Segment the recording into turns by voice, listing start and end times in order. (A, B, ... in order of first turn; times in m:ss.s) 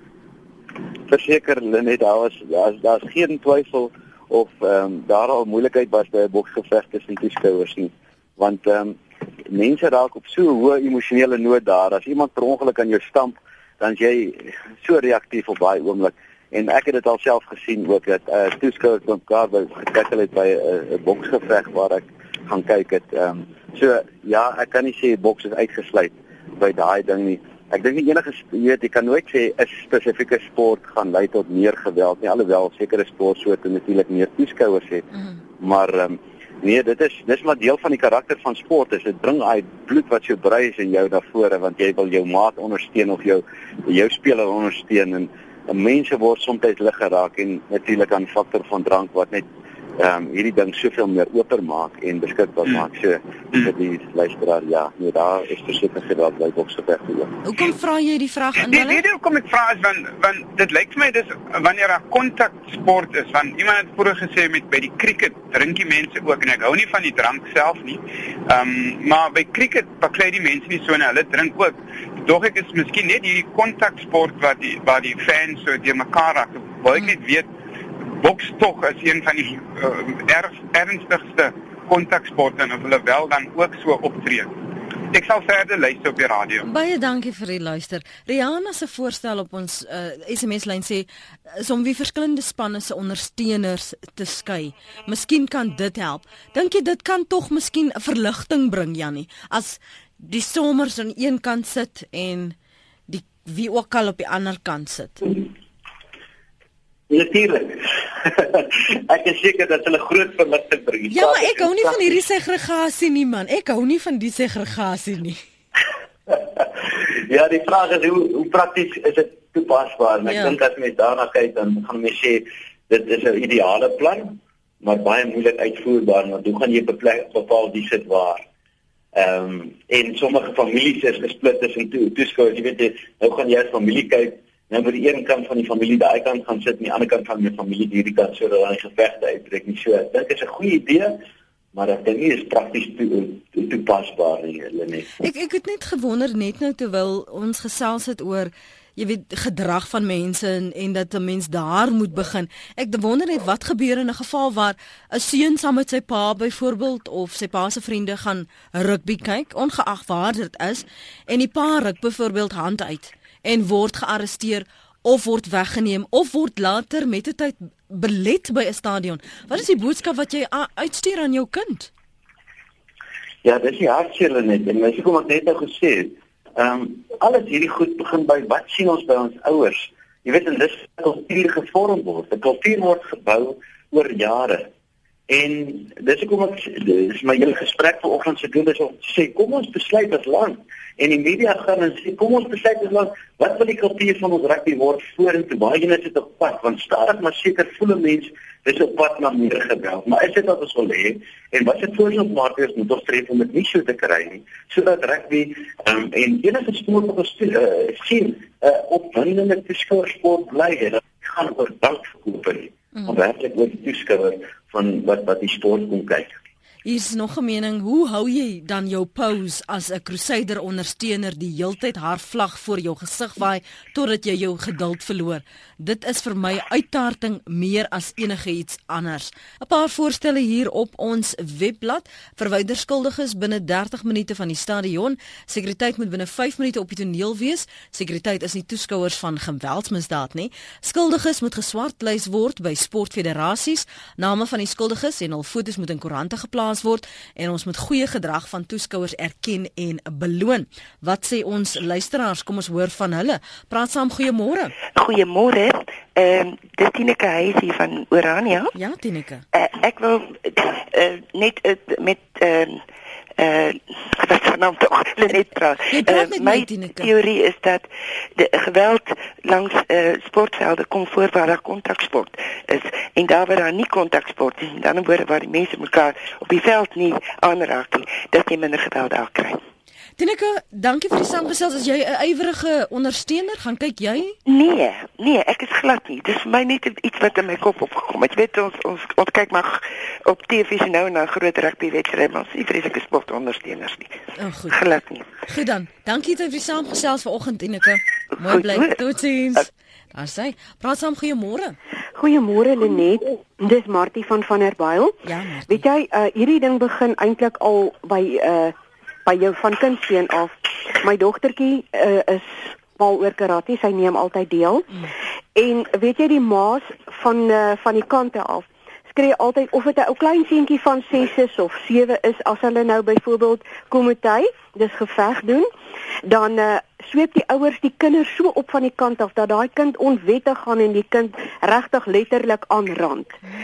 0:01.1-0:35.1 A
0:35.6-0:49.4 A
0:50.0-0:57.3 A
0:57.4-0:59.0 B
0:58.6-1:17.5 C
1:18.2-1:24.5 C
1:25.1-1:26.6 C
1:26.6-1:42.6 B
1:43.1-1:45.3 B
1:47.1-1:52.1 A
1:51.1-1:55.4 B
1:56.3-2:08.4 A
2:00.3-2:00.6 B
2:09.1-2:21.2 A
2:21.7-2:25.1 A
2:25.2-2:51.9 B
2:53.4-3:04.7 A
3:05.3-3:36.4 A
3:36.8-4:14.7 B
4:14.9-4:18.7 D
4:18.7-4:19.4 B
4:19.5-4:22.8 D
4:23.4-4:39.6 D
4:25.9-4:27.1 B
4:40.2-4:44.4 B
4:44.4-4:54.2 D
4:54.4-4:54.8 B
4:54.7-4:55.3 D
4:55.5-5:01.8 B
4:58.4-4:59.0 D
5:02.2-5:05.2 E
5:05.2-5:05.8 B
5:05.7-5:08.7 E
5:09.2-5:14.9 E
5:15.5-5:25.7 E
5:26.3-5:33.4 E